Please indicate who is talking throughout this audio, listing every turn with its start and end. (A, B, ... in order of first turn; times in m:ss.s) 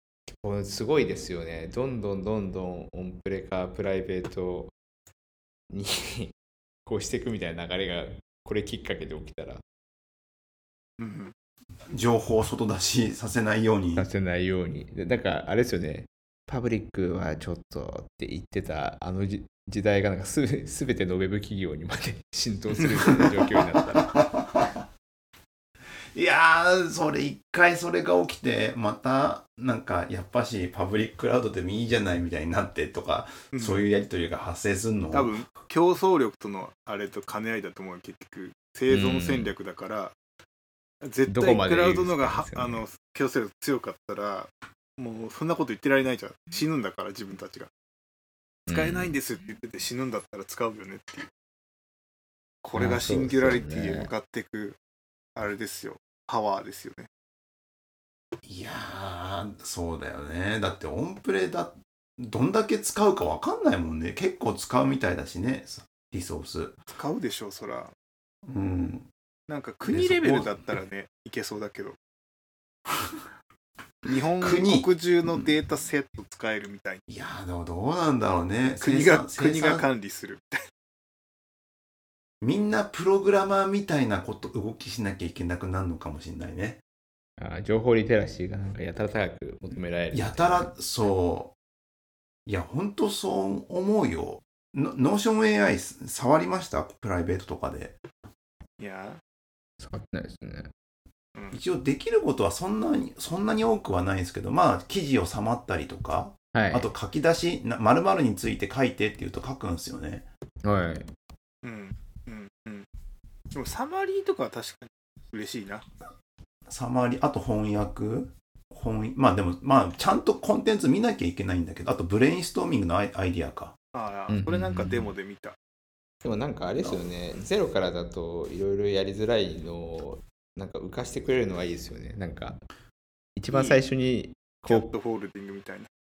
0:00.4-0:04.7 A
0:05.7-0:06.3 A
0:06.8-0:09.6 A
0:11.0-0:11.3 B
0:11.9-0:14.1 C
0:14.0-0:24.1 A
0:23.8-0:24.7 C
0:26.1-0:35.3 C
0:33.5-0:33.8 B
0:35.1-0:40.1 B
0:38.9-0:39.5 A
0:41.0-0:47.7 B
0:41.3-0:42.8 A
0:48.7-0:49.1 A
0:48.7-0:51.3 B
0:52.6-0:54.8 B
0:52.7-0:54.1 A
0:55.4-0:57.1 B
0:58.4-1:06.8 C
1:06.9-1:07.9 B
1:08.5-1:09.1 C
1:09.5-1:12.0 B
1:09.9-1:10.6 C
1:14.0-1:17.0 B
1:14.4-1:15.4 C
1:17.1-1:19.8 C
1:18.8-1:20.6 B
1:22.4-1:26.8 C
1:27.4-1:30.8 A
1:30.1-1:31.5 C
1:32.4-1:38.0 C
1:38.8-1:39.2 B
1:39.8-1:40.7 A
1:41.5-1:50.2 C
1:46.5-1:46.9 A
1:50.6-1:51.1 A
1:51.6-1:52.9 B
1:53.5-1:55.8 B
1:56.7-2:03.7 C
2:03.9-2:05.6 B
2:04.3-2:05.1 A
2:06.2-2:12.6 A
2:13.4-2:14.9 A
2:13.5-2:13.8 B
2:14.6-2:15.9 B